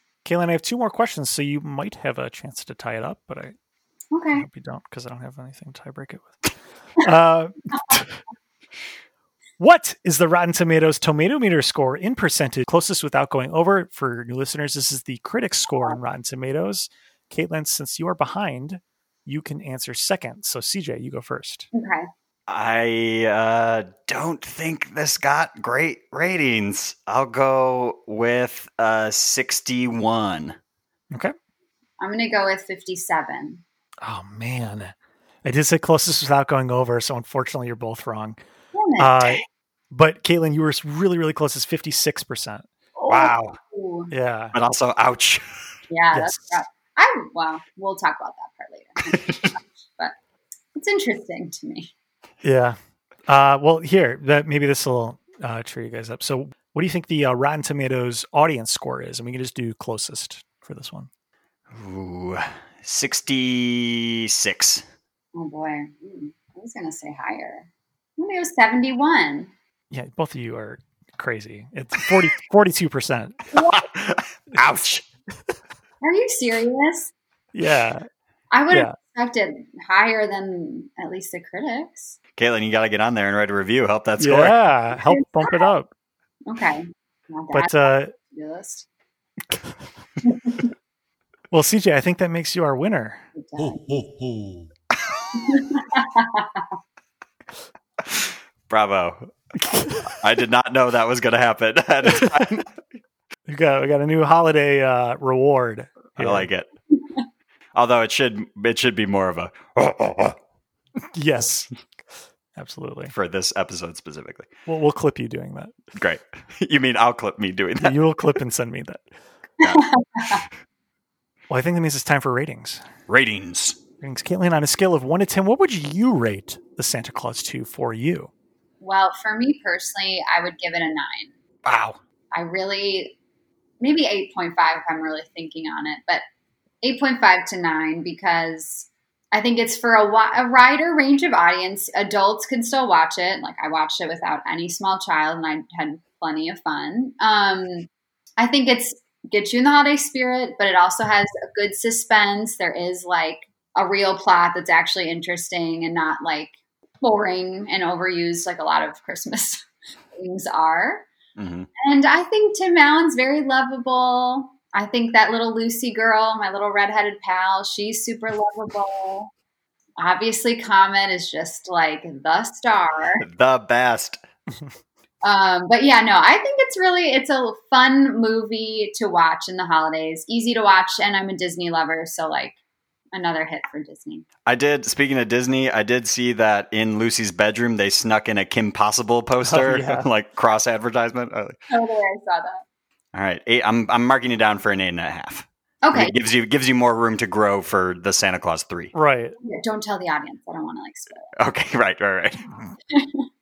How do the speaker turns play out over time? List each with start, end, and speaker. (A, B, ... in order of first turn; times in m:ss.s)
0:00.2-0:03.6 A
0:04.1-0:04.5 B
0:04.4-0:06.4 A
0:07.0-0:08.2 A
0:09.6-0:21.7 A
0:21.7-0:22.1 B
0:22.5-0:30.6 C
0:32.0-0:33.6 B
0:34.0-0:38.4 A
0:38.7-0:39.3 B
0:39.0-0:42.7 A
0:43.0-0:44.1 B
0:43.1-0:43.6 C
0:44.1-0:44.6 A
0:44.5-0:45.4 C
0:45.9-0:50.1 B
0:46.1-0:46.5 A
0:49.1-0:49.5 C
0:50.8-0:51.9 B
0:52.4-1:01.1 A
1:01.7-1:04.8 C
1:05.4-1:09.5 B
1:09.9-1:13.5 A
1:13.5-1:13.8 B
1:13.6-1:15.1 C
1:16.0-1:17.1 B
1:17.5-1:18.1 A
1:18.5-1:22.2 B
1:18.7-1:19.0 A
1:22.4-1:24.6 C
1:24.2-1:25.9 A
1:25.0-1:25.7 B
1:26.5-1:28.9 B
1:27.5-1:28.1 A
1:30.2-1:30.7 B
1:31.5-1:33.2 A
1:33.4-1:34.1 B
1:35.4-1:36.7 B
1:38.1-1:39.3 C
1:39.7-1:40.0 A
1:40.1-1:42.6 C
1:42.0-1:42.5 A
1:43.5-1:46.5 A
1:46.2-1:46.7 C
1:47.8-1:50.4 C
1:51.1-1:51.7 A
1:52.6-1:53.1 A
1:53.1-1:54.5 C
1:54.6-1:55.8 A
1:56.0-1:58.0 C
1:57.8-1:59.1 A
1:59.6-2:00.4 B
2:01.5-2:02.8 A
2:03.1-2:03.8 C
2:04.0-2:08.3 A
2:08.8-2:11.3 B
2:11.6-2:12.0 C
2:12.3-2:13.2 B
2:13.8-2:16.2 B
2:16.8-2:41.1 B
2:41.4-2:41.7 C
2:41.8-2:49.3 B
2:50.0-2:53.2 B
2:53.2-2:54.2 C
2:55.2-3:02.6 B
3:03.1-3:04.3 B
3:04.5-3:11.6 C
3:09.4-3:10.1 A
3:11.7-3:12.6 B
3:13.1-3:18.9 C
3:15.8-3:16.1 B
3:18.9-3:19.4 A
3:19.4-3:21.3 B
3:21.4-3:22.4 C
3:22.9-3:23.3 B